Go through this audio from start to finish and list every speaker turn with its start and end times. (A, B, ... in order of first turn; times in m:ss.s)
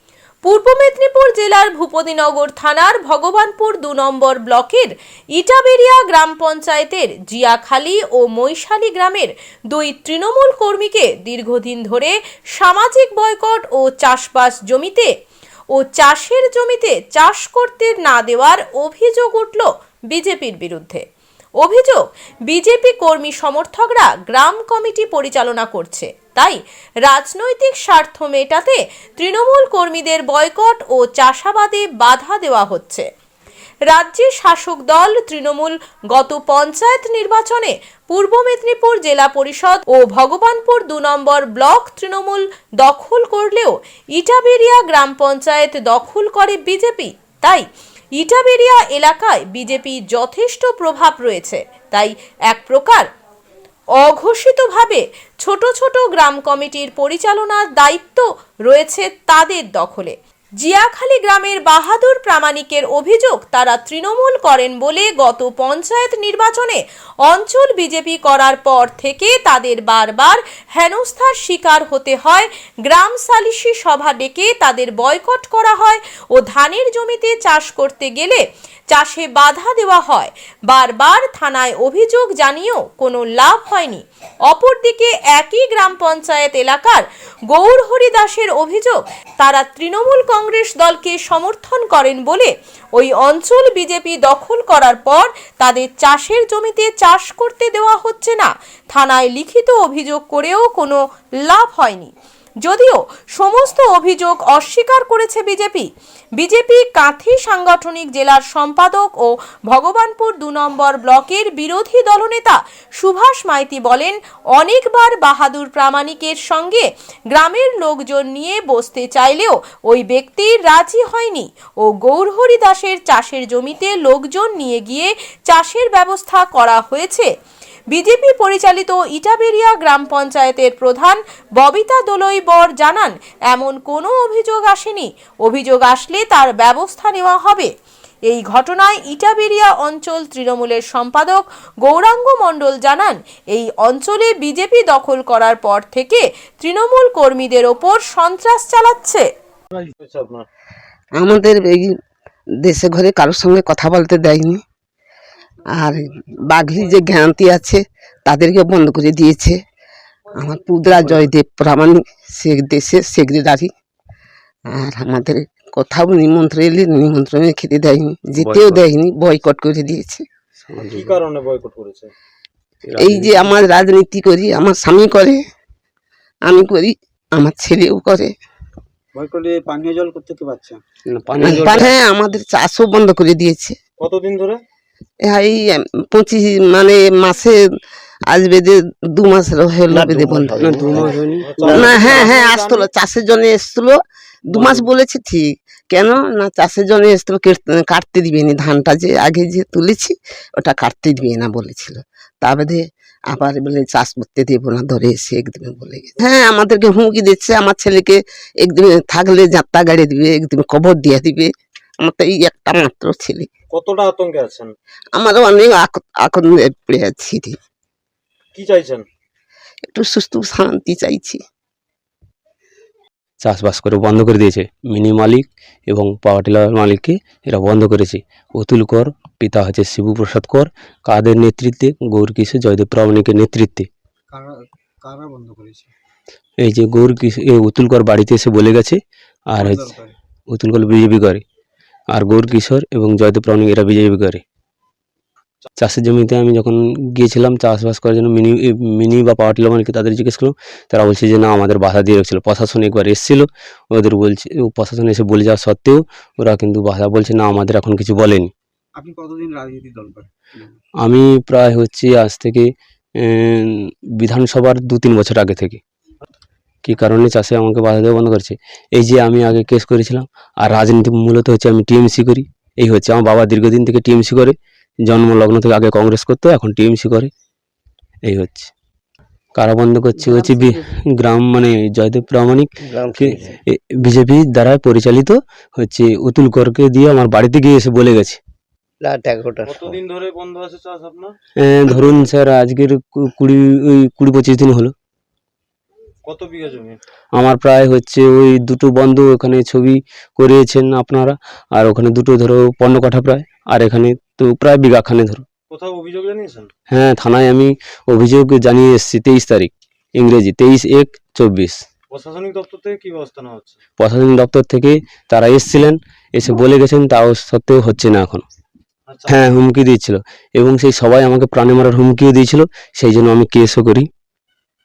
0:00.4-0:15.1 A
0:15.7-0:21.0 A
0:21.6-0:33.0 A
0:33.9-0:47.6 A
0:48.2-0:53.0 A
0:54.0-1:42.1 A
1:42.6-2:07.3 A
2:07.9-2:17.7 A
2:18.2-2:29.2 A
2:29.7-2:30.4 B
2:31.2-2:31.9 C
2:32.6-2:34.6 C
2:35.8-2:39.6 C
2:40.4-2:43.7 C
2:44.7-2:50.2 C
2:48.4-2:48.8 D
2:50.6-2:51.2 D
2:50.9-2:52.1 B
2:52.9-2:53.4 D
2:53.0-2:55.4 C
2:56.5-2:58.3 C
2:59.1-3:00.8 E
3:01.1-3:01.9 D
3:01.4-3:03.7 C
3:04.0-3:04.6 B
3:05.2-3:07.6 C
3:08.3-3:14.0 C
3:10.5-3:11.9 D
3:10.9-3:12.8 B
3:14.5-3:31.5 C
3:14.6-3:14.8 B
3:32.0-3:33.5 C
3:33.7-3:34.7 B
3:35.1-3:37.6 C
3:38.5-3:39.0 B
3:39.9-3:41.4 C
3:43.4-3:53.9 D
3:54.3-3:55.9 E
3:56.6-3:59.9 D
3:59.6-4:00.1 E
4:00.5-4:01.4 D
4:02.1-4:04.4 D
4:05.8-4:18.5 D
4:19.0-4:20.7 E
4:21.0-4:22.7 D
4:23.2-4:25.8 D
4:26.8-4:34.5 D
4:35.0-4:37.3 D
4:38.2-4:38.7 D
4:39.5-4:48.4 D
4:40.3-4:40.6 C
4:49.6-4:51.3 B
4:51.6-4:54.9 D
4:56.2-4:57.0 B
4:57.3-5:05.4 D
5:05.7-5:06.7 B
5:06.9-5:11.8 D
5:12.1-5:13.8 B
5:14.0-5:18.4 D
5:19.1-5:19.4 B
5:19.3-5:24.1 D